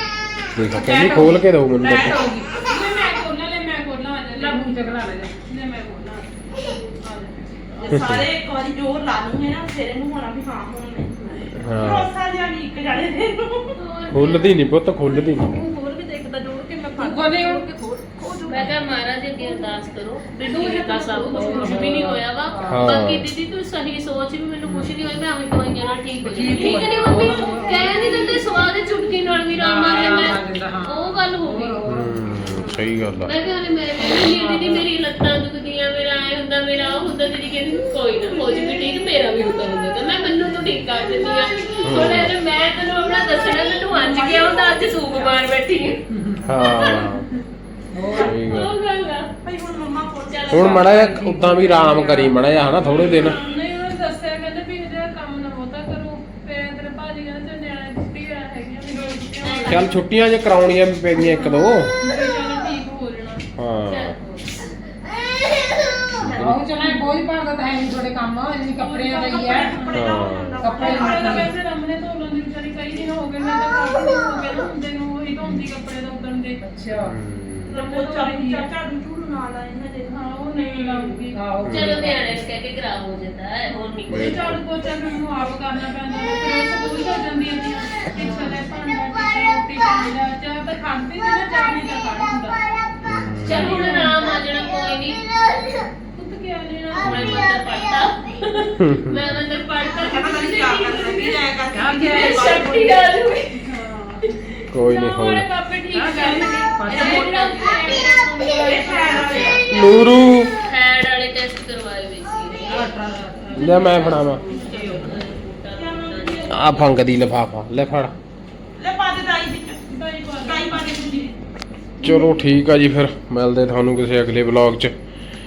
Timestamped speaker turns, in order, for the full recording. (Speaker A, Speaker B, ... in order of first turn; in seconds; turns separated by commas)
Speaker A: 0.5-2.2, Speaker B: 0.7-2.5, Speaker C: 2.6-7.6, Speaker B: 4.3-5.4, Speaker D: 7.8-13.7, Speaker A: 7.9-8.3, Speaker A: 11.6-12.1, Speaker E: 13.8-14.6, Speaker A: 14.1-15.6, Speaker C: 15.6-16.5, Speaker E: 15.6-16.0, Speaker B: 16.9-18.8, Speaker D: 17.0-18.7, Speaker E: 18.5-31.8, Speaker B: 20.5-23.0, Speaker C: 20.7-22.1, Speaker A: 22.6-23.3, Speaker B: 24.6-25.0, Speaker B: 26.2-28.1, Speaker B: 29.5-32.2, Speaker A: 31.9-33.3, Speaker E: 33.2-46.0, Speaker B: 34.0-34.9, Speaker D: 38.4-38.9, Speaker A: 41.8-42.3, Speaker D: 43.8-45.4, Speaker B: 46.1-46.4, Speaker A: 46.4-47.3, Speaker E: 46.6-47.2, Speaker B: 47.9-48.4, Speaker E: 48.1-49.3, Speaker A: 48.1-48.7, Speaker D: 49.4-51.2, Speaker E: 50.3-50.9, Speaker A: 50.5-53.4, Speaker B: 50.9-52.8, Speaker C: 52.8-60.0, Speaker D: 52.8-53.5, Speaker E: 59.4-59.7, Speaker A: 59.6-61.9, Speaker C: 61.1-63.4, Speaker A: 63.6-64.1, Speaker E: 63.8-65.0, Speaker A: 66.2-66.7, Speaker D: 66.2-66.5, Speaker B: 66.3-69.7, Speaker C: 68.8-76.6, Speaker D: 69.2-71.5, Speaker A: 69.9-70.8, Speaker B: 70.6-71.5, Speaker B: 75.4-75.7, Speaker B: 76.6-77.1, Speaker A: 77.0-77.8, Speaker D: 77.7-80.8, Speaker C: 77.8-78.7, Speaker C: 80.0-81.6, Speaker E: 80.7-84.5, Speaker B: 81.3-82.4, Speaker A: 81.6-82.0, Speaker D: 83.7-84.3, Speaker A: 84.1-84.6, Speaker C: 84.2-92.6, Speaker B: 88.2-88.6, Speaker A: 93.0-94.0, Speaker E: 93.4-95.2, Speaker C: 93.8-94.3, Speaker C: 96.1-97.2, Speaker A: 97.0-97.5, Speaker E: 97.0-101.4, Speaker A: 98.8-99.4, Speaker D: 100.0-103.0, Speaker B: 101.7-102.4, Speaker E: 102.0-103.6, Speaker C: 103.6-104.4, Speaker E: 104.4-108.1, Speaker A: 104.7-105.5, Speaker B: 105.9-107.7, Speaker D: 106.4-107.6, Speaker C: 107.4-109.5, Speaker D: 108.4-109.8, Speaker B: 109.2-109.8, Speaker A: 109.7-110.5, Speaker E: 110.5-112.9, Speaker B: 112.7-115.2, Speaker E: 113.5-116.8, Speaker A: 113.5-114.4, Speaker D: 115.7-116.9, Speaker A: 116.5-118.1, Speaker D: 118.8-119.8, Speaker C: 119.9-120.8, Speaker D: 120.3-121.4, Speaker A: 122.0-124.9